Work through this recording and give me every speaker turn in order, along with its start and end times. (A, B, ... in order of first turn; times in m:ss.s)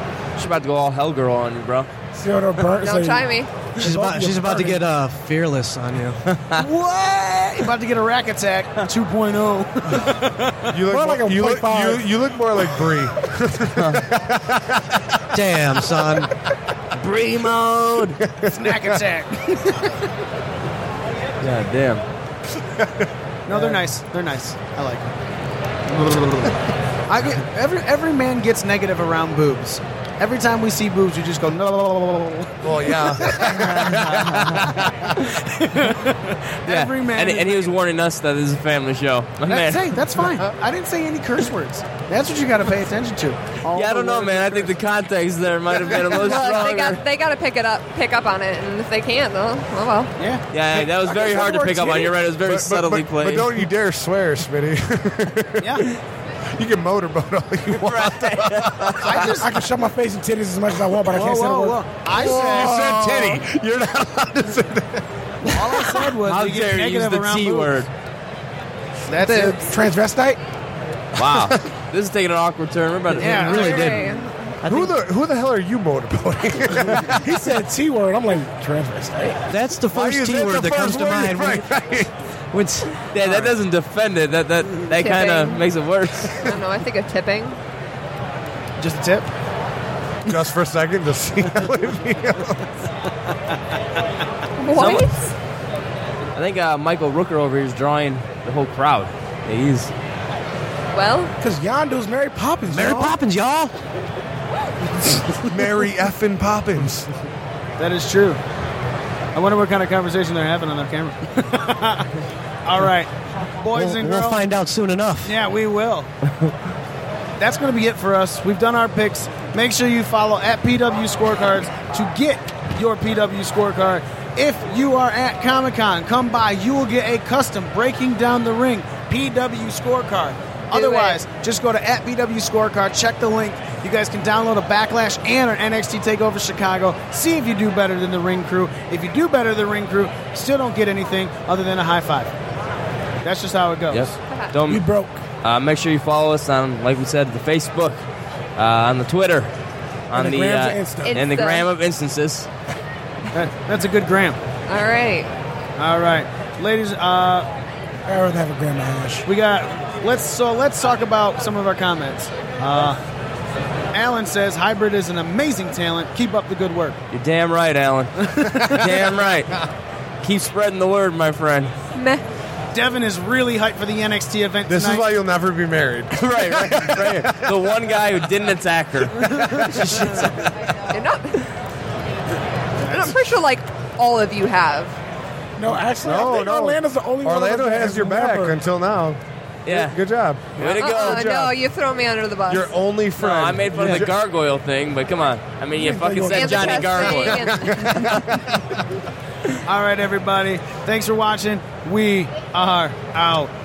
0:00.4-0:01.9 A
0:02.1-0:04.8 B
0:02.8-0:03.5 C
0:03.8-0:06.2 D
0:06.3-0:06.6 A
0:06.5-0:10.7 E
0:10.7-0:15.0 F
0:10.8-0:12.0 B
0:15.3-0:16.3 D
0:17.0-0:18.2 A
0:18.4-0:18.8 F
0:18.5-0:19.9 E
0:21.4-0:22.0 A
0:22.7-0:23.1 F
0:23.5-0:25.1 E
0:25.9-0:32.6 E
0:32.6-0:35.1 F
0:33.5-0:34.6 A
0:35.6-0:37.7 E
0:36.6-0:40.0 A
0:39.5-0:44.8 E
0:43.7-0:47.0 A
0:46.0-0:50.1 C
0:50.2-0:50.4 E
0:50.5-0:53.6 A
0:51.1-0:52.1 B
0:52.4-0:55.8 F
0:56.5-0:59.2 F
0:57.7-0:59.3 A
0:59.0-0:59.6 E
0:59.4-1:01.8 B
1:01.1-1:03.4 E
1:02.1-1:02.7 C
1:02.4-1:05.0 F
1:02.7-1:03.2 B
1:05.4-1:07.8 E
1:05.5-1:06.0 F
1:06.2-1:07.9 A
1:09.0-1:09.6 E
1:09.2-1:09.7 C
1:09.7-1:10.4 B
1:11.2-1:13.6 A
1:11.2-1:11.5 F
1:13.2-1:14.0 E
1:13.2-1:14.0 D
1:13.3-1:14.6 C
1:14.6-1:14.9 D
1:14.6-1:17.2 F
1:17.2-1:19.4 B
1:19.5-1:21.6 D
1:19.9-1:22.1 F
1:22.5-1:23.0 D
1:23.1-1:26.3 A
1:23.2-1:23.5 F
1:25.0-1:25.6 C
1:26.4-1:27.6 C
1:28.8-1:29.3 E
1:30.2-1:32.6 F
1:34.6-1:35.3 C
1:34.7-1:35.1 A
1:36.4-1:39.9 A
1:40.9-1:41.3 C
1:41.4-1:43.1 B
1:42.7-1:43.7 D
1:45.5-1:47.1 F
1:47.8-1:48.4 E
1:49.3-1:52.1 E
1:52.6-1:53.1 E
1:53.6-1:54.4 E
1:53.7-1:55.3 D
1:55.2-1:56.1 E
1:57.4-2:22.3 E
2:10.7-2:11.2 C
2:23.2-2:24.1 E
2:23.9-2:24.8 A
2:24.3-2:24.5 C
2:24.7-2:25.2 B
2:25.4-2:28.0 A
2:28.6-2:29.5 A
2:30.1-2:32.5 A
2:30.1-2:31.2 B
2:31.0-2:31.7 C
2:33.3-2:34.4 E
2:34.7-2:35.3 C
2:35.8-2:37.5 E
2:38.1-2:39.3 B
2:39.2-2:43.0 E
2:43.9-2:47.0 E
2:47.1-2:49.6 A
2:48.3-2:48.8 E
2:50.2-2:51.7 A
2:51.9-2:52.2 C
2:52.7-2:55.1 E
2:54.7-2:57.5 F
2:56.1-3:00.5 A
3:00.9-3:01.4 C
3:02.8-3:03.3 E
3:02.9-3:05.0 C
3:05.6-3:08.6 B
3:06.0-3:11.6 F
3:09.6-3:10.0 A
3:10.6-3:11.3 A
3:10.8-3:12.7 C
3:12.5-3:14.1 F
3:13.2-3:18.3 A
3:15.7-3:17.2 B
3:16.3-3:18.1 C
3:17.9-3:18.2 F
3:19.6-3:23.5 E